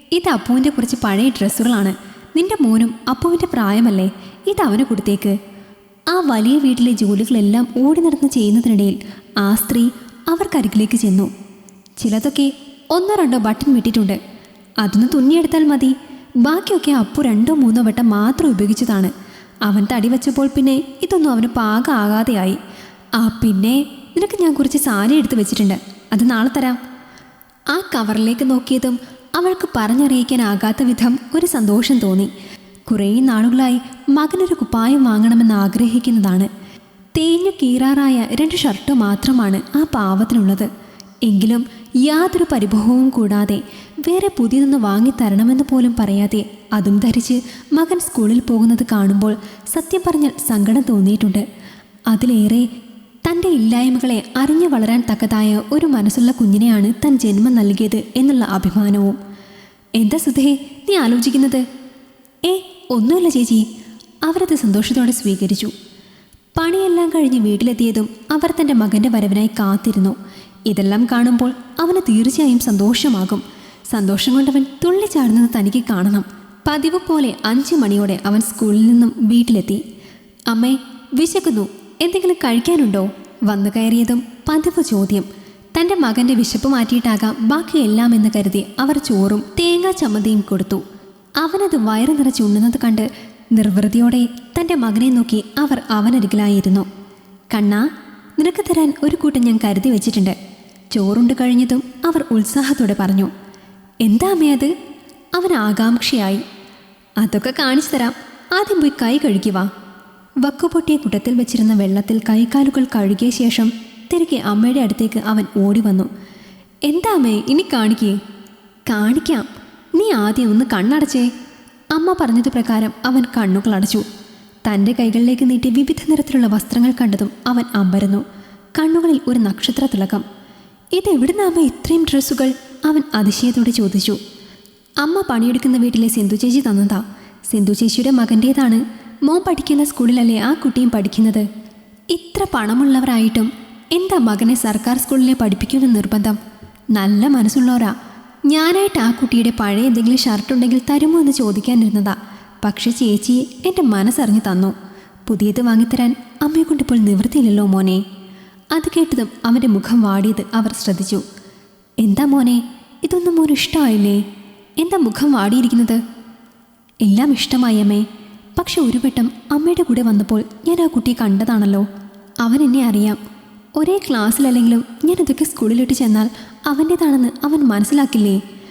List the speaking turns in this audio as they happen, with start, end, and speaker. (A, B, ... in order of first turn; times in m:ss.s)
0:00.1-0:05.4 A
0:06.1-0:11.3 A
0:12.0-0:14.2 A
0:14.8-0:15.9 A
0:16.4-0:19.1 A
0:19.7-0:22.6 A
0:23.2-0:26.8 A
0:27.7-0:32.3 A
0:32.9-0:36.5 A
0:37.2-0:40.7 A
0:41.2-0:51.4 A
0:52.1-0:52.7 A
0:53.2-0:59.2 A
1:00.0-1:01.6 A
1:02.4-1:03.6 A
1:04.2-1:05.7 A
1:06.6-1:10.2 A
1:10.7-1:19.8 A
1:20.5-1:30.8 A
1:31.4-1:36.8 A
1:37.5-1:37.8 A
1:38.4-1:40.4 A
1:40.9-1:43.3 A
1:44.0-1:44.7 A
1:45.4-1:46.4 A
1:47.2-1:49.7 A
1:50.4-1:56.1 A
1:56.9-1:58.2 A
1:58.9-2:01.3 A
2:01.9-2:04.0 A
2:04.6-2:08.2 A
2:08.8-2:10.2 A
2:10.9-2:14.2 A
2:15.0-2:21.5 A
2:22.1-2:26.4 A
2:26.9-2:27.9 A
2:28.5-2:34.7 A
2:35.3-2:38.0 A
2:38.7-2:41.2 A
2:42.0-2:44.2 A
2:44.8-2:46.0 A
2:47.0-2:48.0 A
2:48.6-2:51.9 A
2:52.4-2:53.2 A
2:53.8-2:58.4 A